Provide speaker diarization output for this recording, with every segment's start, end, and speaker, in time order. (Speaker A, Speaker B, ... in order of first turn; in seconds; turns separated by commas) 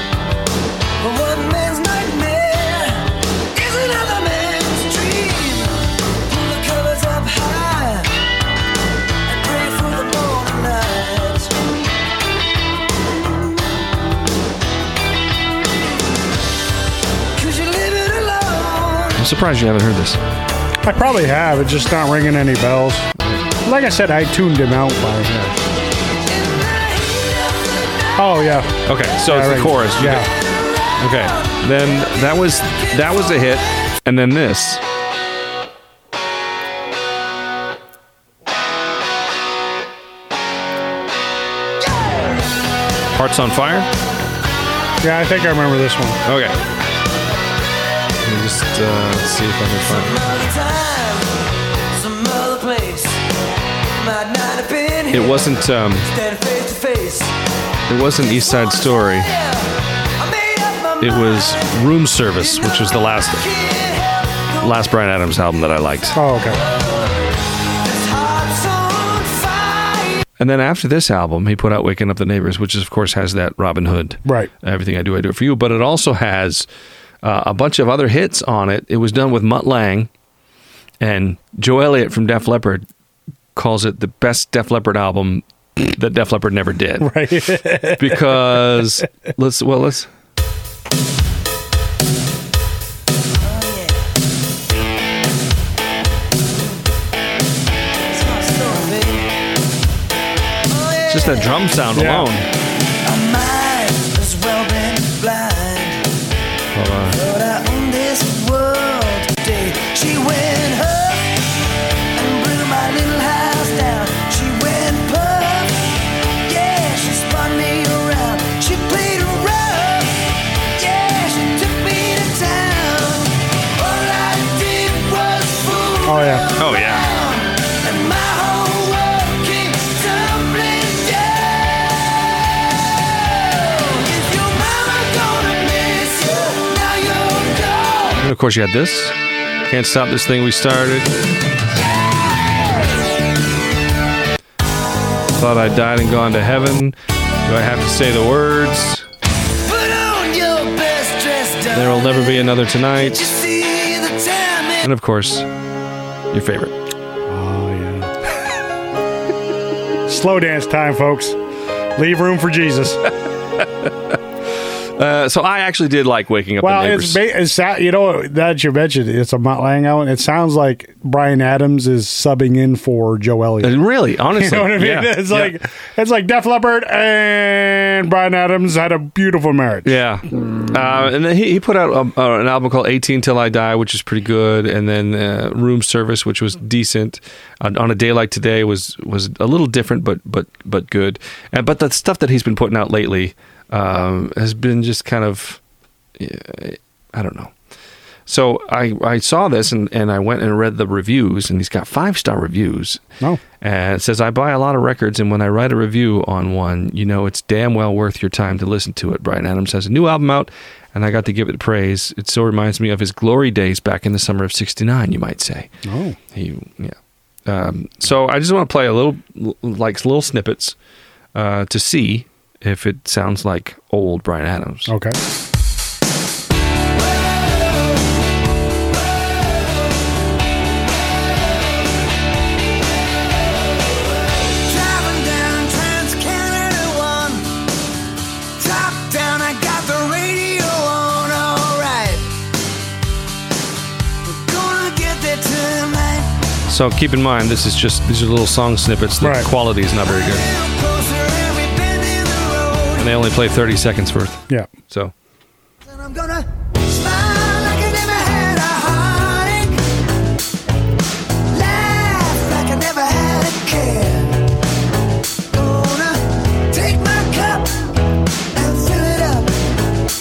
Speaker A: 1.0-8.2, Speaker A: 9.3-11.9, Speaker A: 17.4-19.2, Speaker B: 19.2-20.2, Speaker C: 20.8-23.1, Speaker B: 23.2-23.4, Speaker C: 23.6-25.6, Speaker A: 26.2-28.2, Speaker C: 28.2-30.3, Speaker B: 28.9-30.3, Speaker A: 30.3-31.6, Speaker B: 31.0-34.8, Speaker A: 32.8-33.3, Speaker A: 41.9-42.4, Speaker B: 43.1-43.9, Speaker C: 45.0-46.2, Speaker B: 46.2-46.6, Speaker B: 48.2-50.2, Speaker A: 49.9-51.4, Speaker A: 51.9-53.2, Speaker A: 53.9-57.3, Speaker B: 55.1-56.1, Speaker B: 57.9-59.3, Speaker A: 58.2-64.8, Speaker B: 61.0-63.5, Speaker B: 64.6-66.2, Speaker C: 66.2-66.6, Speaker A: 66.4-70.2, Speaker B: 70.4-76.7, Speaker C: 74.2-74.5, Speaker B: 77.2-80.1, Speaker B: 81.0-82.8, Speaker B: 83.5-87.1, Speaker C: 87.0-89.0, Speaker B: 87.9-90.1, Speaker A: 93.3-94.1, Speaker A: 98.0-99.3, Speaker A: 100.7-101.6, Speaker B: 101.1-102.5, Speaker C: 101.9-102.4, Speaker A: 103.0-106.0, Speaker B: 106.7-107.2, Speaker A: 107.1-111.4, Speaker A: 112.1-115.9, Speaker A: 116.5-138.2, Speaker C: 126.1-126.5, Speaker B: 126.6-127.1, Speaker B: 138.2-141.1, Speaker B: 145.3-149.1, Speaker A: 149.6-154.9, Speaker B: 151.7-153.3, Speaker B: 154.8-155.5, Speaker B: 156.3-156.7, Speaker C: 157.3-158.1, Speaker C: 160.1-161.4, Speaker C: 162.0-163.1, Speaker B: 165.0-167.2, Speaker C: 166.6-180.0, Speaker B: 173.6-175.6, Speaker B: 179.8-195.6, Speaker B: 196.2-197.5, Speaker B: 198.3-203.0, Speaker B: 203.6-215.7, Speaker C: 215.8-216.2, Speaker B: 216.3-217.0, Speaker B: 217.5-220.8, Speaker B: 221.3-224.9, Speaker C: 224.9-225.2, Speaker A: 227.1-228.0, Speaker A: 233.5-237.5, Speaker A: 238.6-242.3, Speaker A: 244.2-246.3, Speaker B: 246.7-250.5, Speaker C: 249.2-249.5, Speaker A: 250.0-253.1, Speaker B: 253.0-255.1, Speaker A: 255.8-259.9, Speaker A: 261.5-264.5, Speaker A: 265.5-267.9, Speaker A: 268.5-269.6